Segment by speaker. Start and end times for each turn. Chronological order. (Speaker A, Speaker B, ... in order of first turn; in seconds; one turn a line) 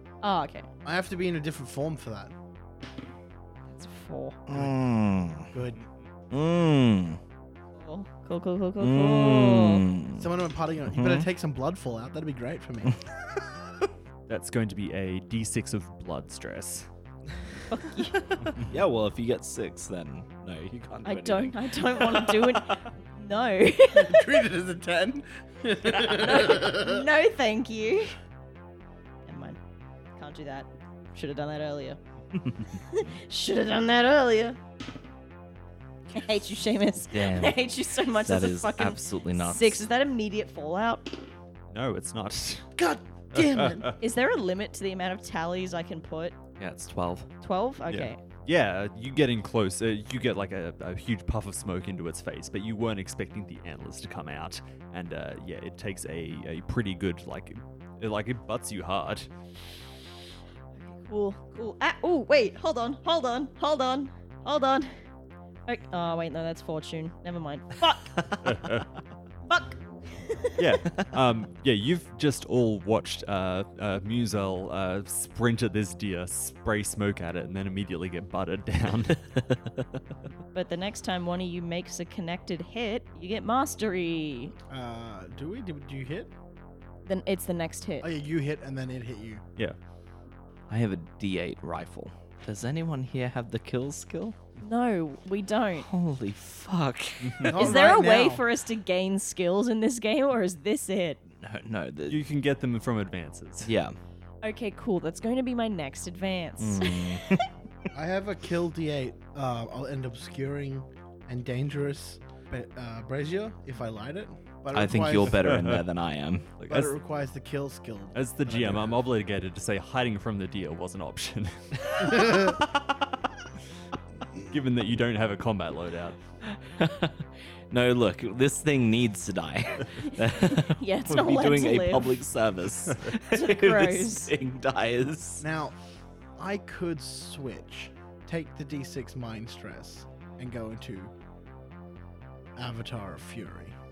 Speaker A: 0.2-0.7
Speaker B: 0.8-2.3
Speaker A: 3.7-4.4
Speaker C: 4.5-5.5
Speaker B: 5.5-5.8
Speaker C: 6.3-7.2
Speaker A: 7.7-9.8
Speaker C: 8.8-10.3
Speaker B: 10.2-13.0
Speaker C: 10.9-11.2
Speaker D: 14.3-16.9
Speaker A: 17.7-18.5
Speaker C: 18.6-22.6
Speaker A: 21.1-24.3
Speaker B: 23.9-27.1
Speaker C: 25.9-26.2
Speaker A: 26.1-28.1
Speaker A: 29.2-29.6
Speaker A: 30.2-32.0
Speaker C: 32.3-32.8
Speaker A: 32.7-34.6
Speaker A: 36.1-41.2
Speaker C: 37.1-37.6
Speaker C: 38.2-39.8
Speaker D: 41.7-42.7
Speaker B: 42.8-43.9
Speaker D: 43.3-44.0
Speaker A: 44.0-46.4
Speaker C: 46.6-47.3
Speaker A: 47.4-48.2
Speaker D: 47.9-59.3
Speaker A: 60.8-64.9
Speaker A: 65.7-68.3
Speaker D: 68.4-68.9
Speaker A: 69.5-70.7
Speaker D: 70.6-79.2
Speaker C: 79.1-80.0
Speaker A: 80.5-84.5
Speaker B: 84.7-86.3
Speaker A: 87.0-88.1
Speaker B: 88.0-89.4
Speaker C: 90.7-94.4
Speaker A: 94.6-95.9
Speaker C: 95.8-97.5
Speaker D: 97.2-97.6
Speaker B: 97.5-98.4
Speaker A: 97.5-101.2
Speaker C: 101.3-102.2
Speaker D: 102.1-103.7
Speaker C: 103.6-104.0
Speaker A: 104.4-107.4
Speaker C: 106.6-107.5
Speaker B: 107.9-115.4
Speaker C: 114.7-116.5
Speaker D: 115.3-115.8
Speaker D: 116.6-116.9
Speaker B: 116.7-118.8
Speaker D: 118.1-122.6
Speaker B: 122.1-122.6
Speaker D: 124.4-126.2
Speaker C: 126.5-135.4
Speaker A: 129.9-132.2
Speaker A: 133.2-134.3
Speaker B: 135.4-135.8
Speaker B: 136.4-141.1
Speaker B: 142.6-143.8